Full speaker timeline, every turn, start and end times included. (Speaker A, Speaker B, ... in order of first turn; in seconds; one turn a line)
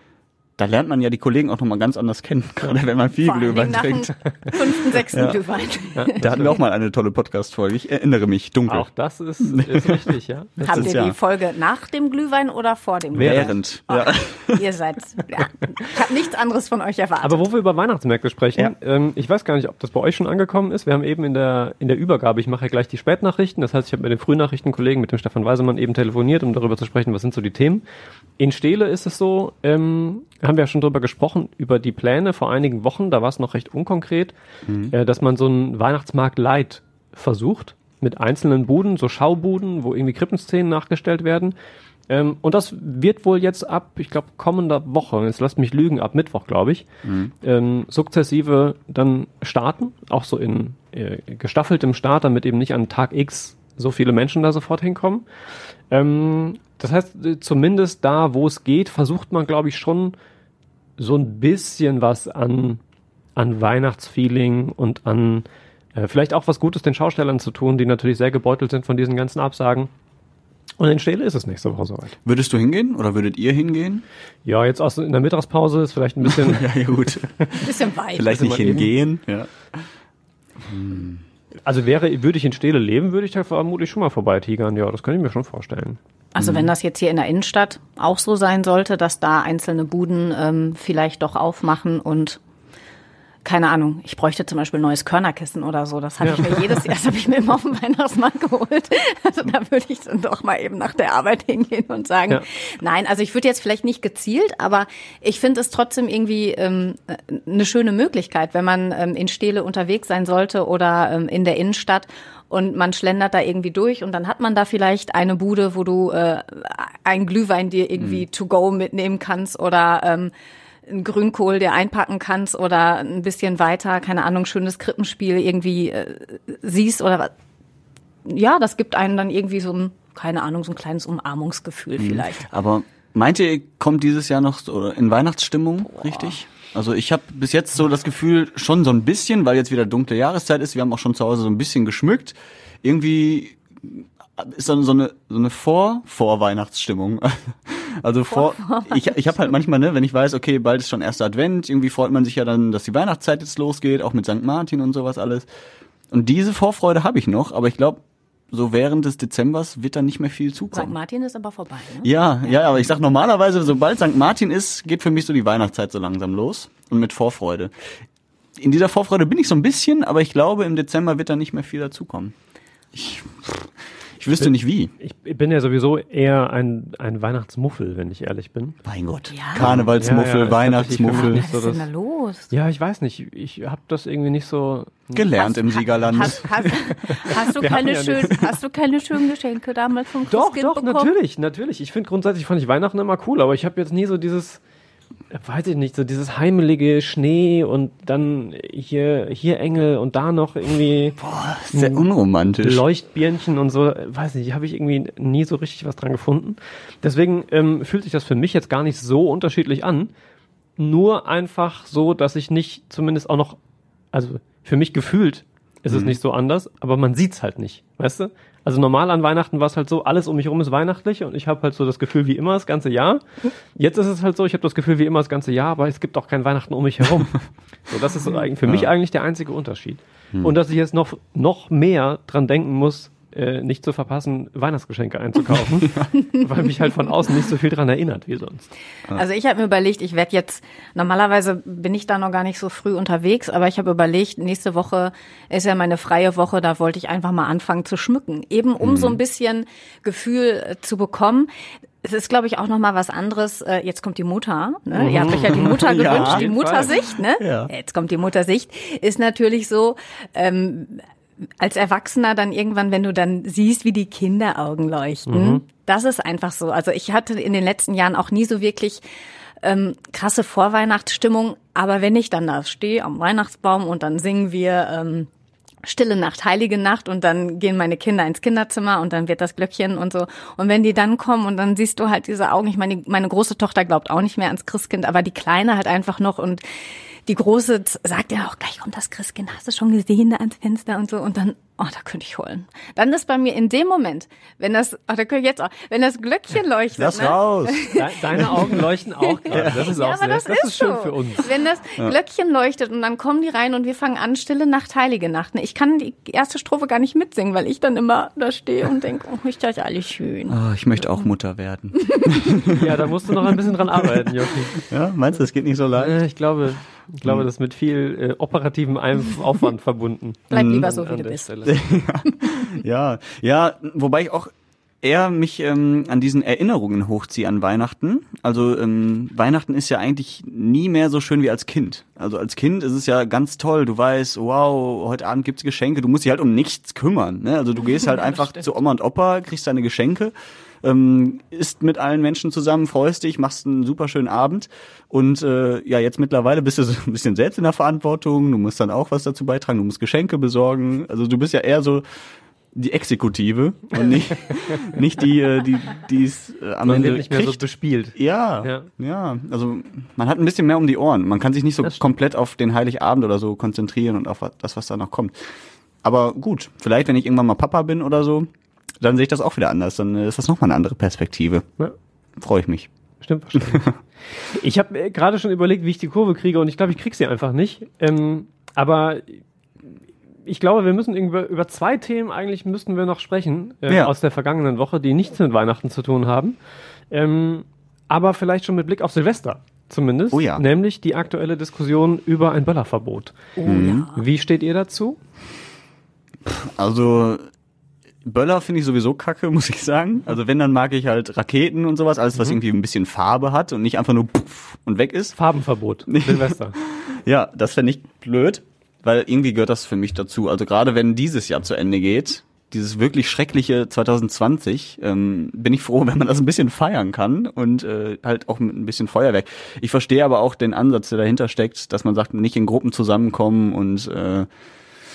Speaker A: 0.6-5.4
Speaker B: 3.2-6.5
Speaker C: 6.0-6.5
Speaker A: 6.1-8.9
Speaker C: 8.7-10.9
Speaker A: 9.4-10.1
Speaker B: 10.6-17.4
Speaker A: 10.6-11.2
Speaker A: 13.2-14.6
Speaker C: 13.2-13.5
Speaker C: 17.2-27.8
Speaker C: 28.4-34.3
Speaker A: 34.7-34.9
Speaker C: 34.9-41.5
Speaker C: 42.1-46.9
Speaker A: 47.0-47.3
Speaker C: 47.4-55.2
Speaker C: 55.9-60.1
Speaker C: 61.0-62.8
Speaker C: 63.4-69.9
Speaker C: 70.8-72.2
Speaker A: 72.2-74.0
Speaker C: 74.4-76.6
Speaker A: 76.2-79.8
Speaker B: 77.6-78.4
Speaker C: 78.3-78.9
Speaker A: 80.6-81.2
Speaker C: 81.6-86.0
Speaker B: 86.4-92.4
Speaker A: 86.4-86.7
Speaker B: 93.4-120.3
Speaker C: 96.2-96.5
Speaker A: 118.0-118.2
Speaker B: 120.9-127.3
Speaker B: 128.2-132.4
Speaker A: 132.0-155.4
Speaker B: 135.9-136.3
Speaker B: 148.3-149.1
Speaker A: 156.1-158.0
Speaker A: 158.5-160.9
Speaker B: 160.7-162.1
Speaker A: 162.0-167.7
Speaker A: 168.6-172.3
Speaker A: 172.9-174.9
Speaker C: 174.4-178.8
Speaker A: 178.8-181.4
Speaker B: 179.3-179.7
Speaker C: 179.5-181.9
Speaker B: 181.1-182.5
Speaker C: 182.5-185.3
Speaker A: 185.1-186.7
Speaker B: 185.4-191.1
Speaker C: 187.0-188.4
Speaker C: 190.3-194.6
Speaker C: 195.3-201.2
Speaker A: 201.2-202.8
Speaker C: 201.7-202.1
Speaker C: 202.6-210.1
Speaker C: 210.8-213.6
Speaker C: 214.1-223.2
Speaker A: 215.9-216.2
Speaker C: 223.8-238.7
Speaker A: 228.6-228.9
Speaker B: 239.1-251.5
Speaker A: 248.8-249.2
Speaker B: 252.0-261.0
Speaker C: 254.9-257.0
Speaker A: 255.2-256.5
Speaker A: 257.4-257.7
Speaker B: 261.6-269.0
Speaker C: 265.3-265.6
Speaker B: 269.6-275.3
Speaker B: 275.8-286.6
Speaker B: 287.2-298.1
Speaker A: 297.0-297.9
Speaker C: 297.9-301.5
Speaker B: 299.4-310.6
Speaker A: 299.5-299.9
Speaker A: 310.5-314.0
Speaker C: 312.7-314.8
Speaker A: 314.8-316.1
Speaker C: 316.0-321.8
Speaker B: 320.5-321.6
Speaker A: 321.6-352.0
Speaker A: 352.7-357.6
Speaker C: 356.9-358.9
Speaker A: 358.1-365.4
Speaker A: 366.0-368.5
Speaker A: 369.0-371.6
Speaker A: 372.4-372.9
Speaker C: 373.2-373.9
Speaker A: 373.6-373.9
Speaker C: 374.4-379.4
Speaker C: 380.4-386.6
Speaker A: 383.9-384.1
Speaker C: 387.1-395.2
Speaker A: 390.3-390.6
Speaker B: 393.6-394.2
Speaker A: 393.6-394.1
Speaker A: 396.4-397.5
Speaker A: 398.2-405.4
Speaker C: 405.4-406.8
Speaker A: 406.1-424.5